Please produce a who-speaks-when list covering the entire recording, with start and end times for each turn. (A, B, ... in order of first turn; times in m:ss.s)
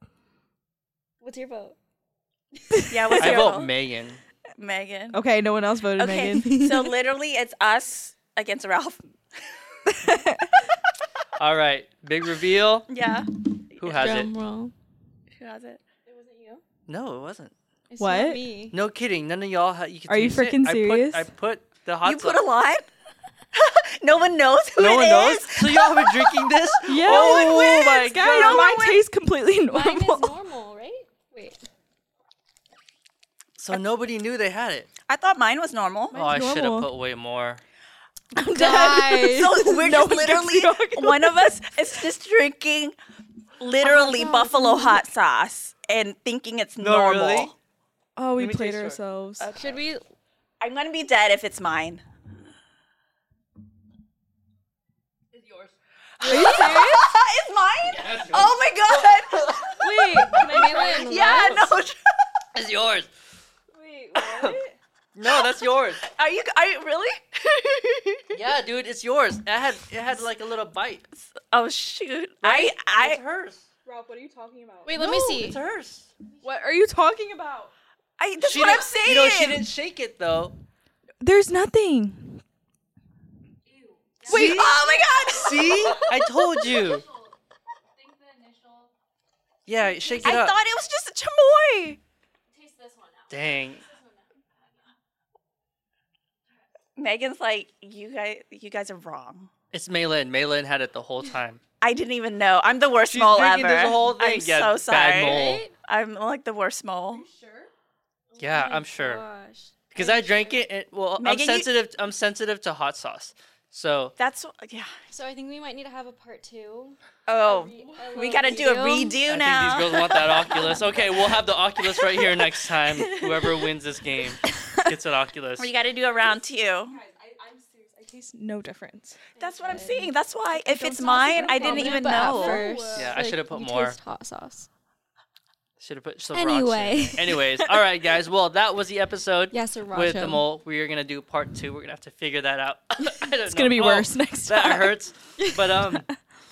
0:01.2-0:01.8 A
0:02.9-0:03.7 B
0:03.2-0:04.2 C
0:04.6-0:05.2 B
0:05.1-0:06.7 D
0:06.0-0:09.0 B
0:06.5-0:06.7 A
0:09.9-0:10.7 D
0:11.4-0:12.9 C
0:12.9-0:13.3 B
0:13.8-0:14.3 C
0:13.9-0:14.7 A
0:15.3-0:15.8 B
0:16.1-0:16.6 A
0:16.9-0:17.5 C
0:17.9-0:18.8 A
0:18.0-0:18.4 D
0:18.7-0:22.4 C
0:20.1-0:21.3 D
0:22.0-0:22.9 B
0:23.5-0:29.0 B
0:24.8-0:28.5 C
0:26.9-0:30.3 D
0:29.7-0:31.6 A
0:33.6-0:34.9 C
0:35.1-0:36.2 B
0:36.1-0:36.9 D
0:36.1-0:37.6 C
0:38.3-0:41.7 D
0:38.4-0:39.7 A
0:39.3-0:42.9 B
0:43.6-0:47.5 B
0:43.8-0:45.0 A
0:46.8-0:47.5 C
0:48.2-0:49.4 D
0:48.4-0:49.0 C
0:49.5-0:50.0 A
0:50.6-0:52.0 B
0:56.2-1:02.0 B
0:56.2-0:57.1 D
0:56.2-0:56.7 A
0:57.8-1:00.5 C
0:59.8-1:01.2 D
1:00.4-1:01.7 A
1:02.5-1:03.1 C
1:03.7-1:04.7 D
1:04.2-1:04.6 C
1:05.1-1:06.0 C
1:05.2-1:08.3 B
1:08.3-1:11.0 C
1:11.2-1:13.2 B
1:12.4-1:13.7 C
1:13.8-1:15.4 D
1:14.8-1:15.6 A
1:15.2-1:16.1 C
1:16.4-1:17.7 D
1:18.2-1:19.7 B
1:18.4-1:20.6 C
1:21.2-1:22.4 D
1:24.2-1:25.3 D
1:24.2-1:26.1 B
1:24.2-1:27.0 C
1:28.2-1:28.8 A
1:29.7-1:30.6 C
1:30.2-1:32.0 B
1:32.6-1:33.3 A
1:33.3-1:33.8 C
1:37.0-1:39.5 B
1:39.7-1:41.6 C
1:41.8-1:47.3 B
1:43.0-1:45.6 C
1:45.2-1:45.7 A
1:48.3-1:50.6 A
1:48.4-1:49.2 C
1:49.9-1:54.1 C
1:51.2-1:51.7 B
1:54.2-1:54.9 B
1:55.1-1:59.2 A
1:57.3-2:00.5 B
1:59.3-2:05.7 C
2:05.6-2:07.0 B
2:07.0-2:09.2 D
2:09.4-2:12.7 B
2:09.4-2:10.1 A
2:10.5-2:13.2 D
2:11.4-2:14.7 A
2:12.9-2:14.0 C
2:15.8-2:26.1 C
2:16.3-2:17.4 A
2:19.5-2:20.4 A
2:23.5-2:24.9 D